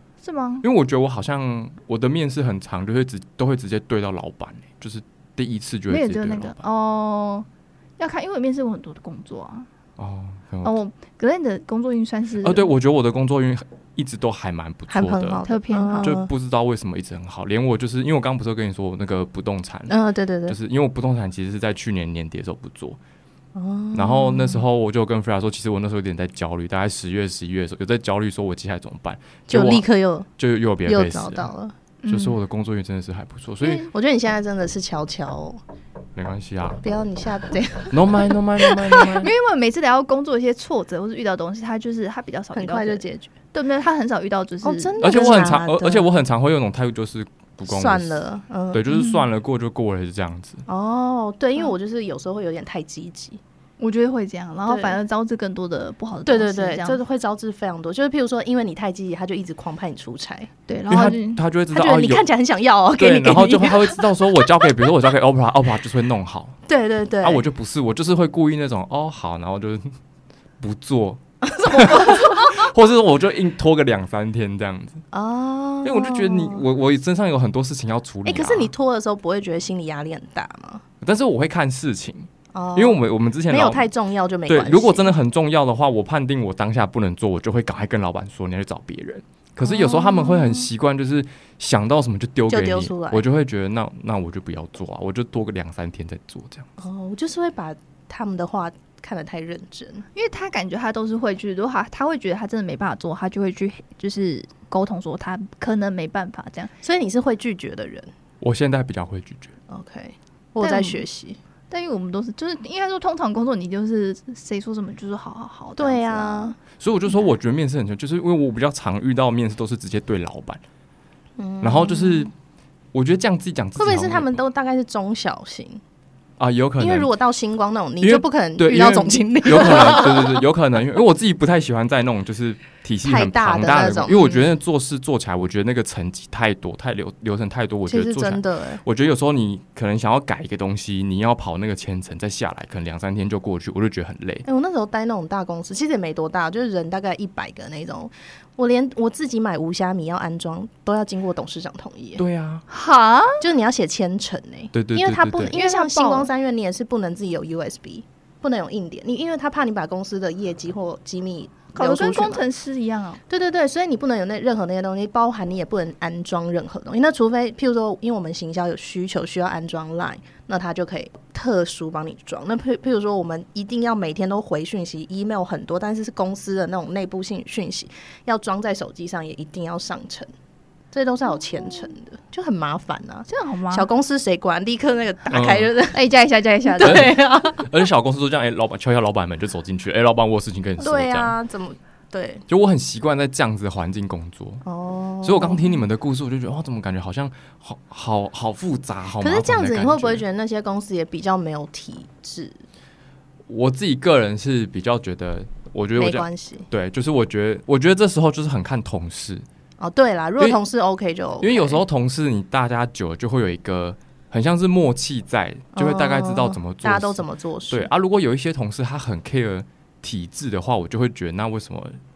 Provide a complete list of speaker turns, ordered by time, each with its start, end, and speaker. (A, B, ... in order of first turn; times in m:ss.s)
0:00.2-0:00.6 A
0:00.6-0:06.6 B
0:05.9-0:07.5 A
0:08.0-0:09.7 A
0:10.0-0:10.7 B
0:10.6-0:12.7 A
0:12.4-0:15.4 B
0:14.9-0:16.3 C
0:15.4-0:16.2 A
0:16.0-0:19.9 B
0:19.9-0:20.6 C
0:20.5-0:23.0 B
0:23.5-0:24.6 C
0:23.9-0:29.8 B
0:29.5-0:30.3 C
0:30.4-0:31.5 B
0:30.8-0:31.7 C
0:32.0-0:32.4 A
0:32.1-0:33.8 B
0:33.6-0:35.6 C
0:36.2-0:36.8 B
0:36.8-0:39.3 C
0:37.9-0:39.3 B
0:39.2-0:45.4 A
0:42.5-0:43.3 C
0:44.6-0:46.1 C
0:45.0-0:50.6 B
0:47.6-0:48.8 C
0:48.9-0:49.2 A
0:50.7-0:53.4 C
0:53.8-0:57.0 A
0:54.6-0:55.0 C
0:56.2-1:00.5 C
1:00.7-1:01.4 A
1:00.9-1:02.2 B
1:01.7-1:04.9 C
1:03.0-1:06.6 B
1:06.7-1:07.4 C
1:07.2-1:09.9 B
1:10.6-1:15.0 B
1:11.4-1:12.7 C
1:15.1-1:16.6 C
1:15.8-1:18.7 B
1:18.2-1:20.8 C
1:21.0-1:23.9 B
1:22.5-1:25.2 C
1:24.5-1:36.6 B
1:29.7-1:30.2 C
1:32.5-1:33.2 C
1:36.8-1:40.0 C
1:40.1-1:46.7 A
1:46.8-1:48.1 C
1:48.4-1:49.5 B
1:49.7-1:51.4 C
1:50.6-1:51.0 A
1:51.7-1:56.6 A
1:55.8-1:56.6 C
1:56.8-2:00.6 B
2:01.4-2:02.3 C
2:01.6-2:02.3 B
2:02.9-2:04.3 B
2:03.8-2:05.8 C
2:06.4-2:07.1 B
2:06.8-2:10.4 C
2:08.0-2:24.4 B
2:13.0-2:14.5 C
2:17.9-2:18.8 C
2:24.4-2:32.2 C
2:32.2-2:32.7 B
2:32.7-2:33.4 A
2:33.4-2:42.4 C
2:34.7-2:35.6 B
2:35.5-2:36.3 A
2:41.7-2:43.2 A
2:43.3-3:00.3 C
3:00.9-3:06.0 C
3:03.3-3:03.9 A
3:05.3-3:05.7 B
3:05.9-3:07.1 A
3:06.6-3:07.7 C
3:06.8-3:11.3 B
3:10.8-3:12.4 C
3:12.5-3:14.6 B
3:14.6-3:15.7 C
3:15.2-3:20.2 B
3:19.2-3:22.6 C
3:23.5-3:29.4 B
3:25.9-3:26.7 C
3:29.8-3:31.8 C
3:31.4-3:42.0 B
3:35.7-3:37.9 C